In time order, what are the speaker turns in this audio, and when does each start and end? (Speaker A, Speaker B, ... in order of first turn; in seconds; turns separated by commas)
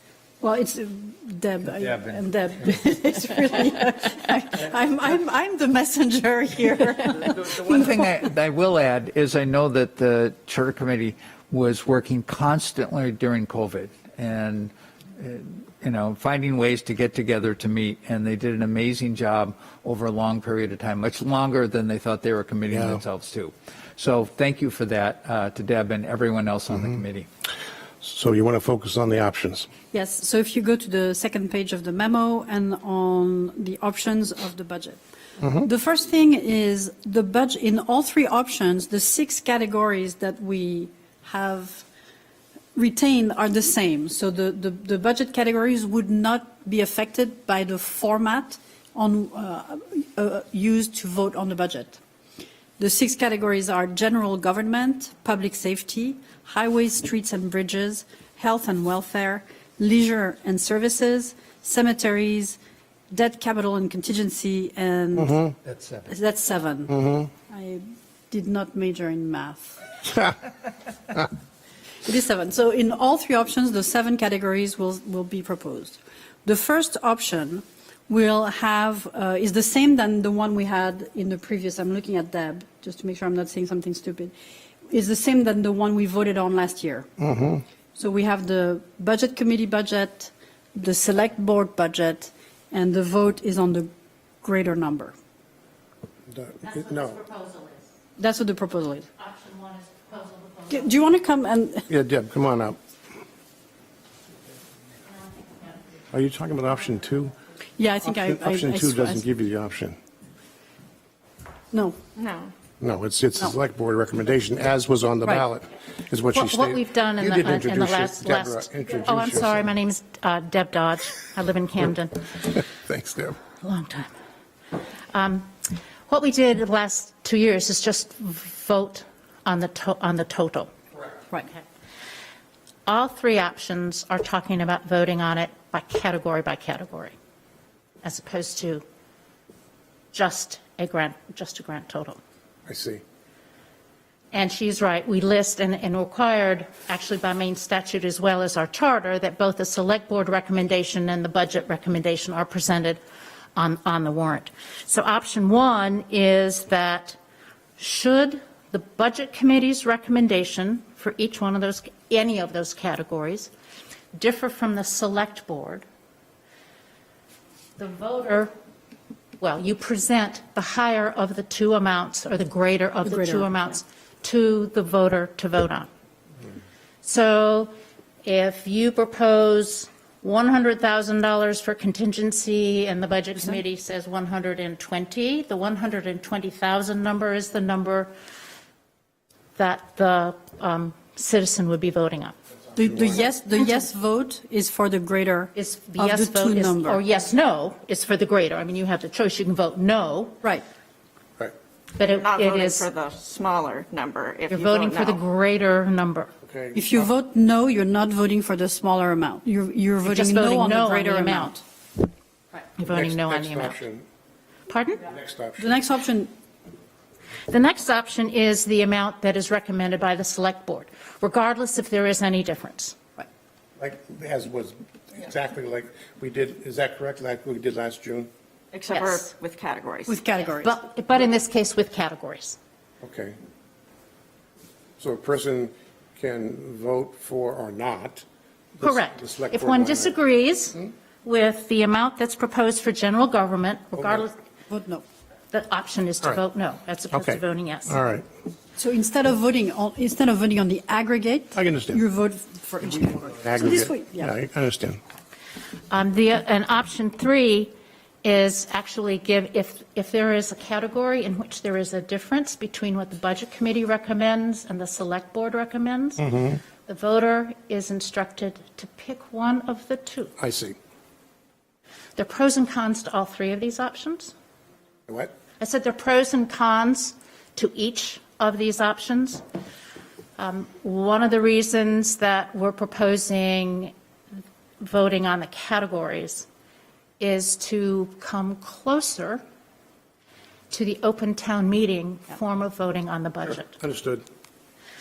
Speaker A: 0.4-8.1, Speaker B: 1.8-2.2, Speaker B: 7.3-27.3, Speaker C: 22.7-23.0, Speaker C: 28.0-29.7, Speaker A: 29.9-41.9, Speaker A: 42.8-52.0, Speaker A: 52.8-62.6, Speaker A: 63.1-65.5, Speaker B: 65.7-66.1, Speaker A: 66.1-69.8, Speaker C: 66.9-67.3, Speaker A: 72.0-84.3, Speaker A: 84.9-87.1, Speaker C: 87.2-87.6, Speaker A: 88.0-93.9, Speaker A: 94.4-95.1, Speaker C: 96.3-97.2, Speaker D: 96.6-98.0, Speaker A: 98.2-99.1, Speaker D: 99.2-101.0, Speaker A: 100.7-101.9, Speaker C: 101.9-102.8, Speaker D: 105.1-105.9, Speaker C: 106.1-107.3, Speaker A: 107.8-109.2, Speaker C: 108.1-110.0, Speaker A: 111.7-112.0, Speaker E: 112.2-112.5, Speaker C: 112.8-119.7, Speaker D: 116.3-122.3, Speaker C: 122.6-123.4, Speaker D: 123.6-124.1, Speaker D: 125.1-125.5, Speaker D: 126.1-130.7, Speaker D: 132.9-137.2, Speaker D: 138.0-138.8, Speaker D: 140.1-142.2, Speaker C: 142.7-143.0, Speaker D: 144.3-153.0, Speaker D: 153.6-157.2, Speaker D: 157.8-163.5, Speaker D: 164.2-165.8, Speaker D: 167.8-168.5, Speaker D: 169.4-175.9, Speaker A: 173.1-173.7, Speaker D: 177.0-177.7, Speaker D: 178.2-188.1, Speaker D: 189.6-192.4, Speaker A: 192.8-197.0, Speaker D: 195.6-200.4, Speaker D: 201.9-202.9, Speaker E: 202.1-205.2, Speaker D: 204.5-206.3, Speaker C: 206.4-206.9, Speaker A: 206.7-211.6, Speaker D: 210.1-211.6, Speaker D: 212.8-213.8, Speaker C: 212.8-214.1, Speaker D: 214.7-215.1, Speaker C: 215.1-215.8, Speaker A: 215.6-216.3, Speaker D: 217.5-223.0, Speaker C: 223.8-228.3, Speaker E: 228.7-230.2, Speaker D: 228.9-229.2, Speaker A: 230.1-230.7, Speaker D: 230.4-232.6, Speaker C: 233.0-233.4, Speaker C: 235.0-238.2, Speaker C: 238.8-240.2, Speaker D: 238.8-244.3, Speaker C: 244.0-244.2, Speaker A: 244.7-245.0, Speaker D: 245.5-248.0, Speaker C: 247.1-248.3, Speaker A: 248.8-254.3, Speaker C: 251.6-252.0, Speaker C: 253.3-255.0, Speaker D: 255.9-270.3, Speaker C: 266.2-266.6, Speaker C: 270.4-270.8, Speaker D: 272.2-274.3, Speaker D: 275.6-279.4, Speaker D: 280.4-283.9, Speaker D: 284.8-286.5, Speaker D: 287.2-289.4, Speaker D: 290.7-293.8, Speaker C: 293.8-294.2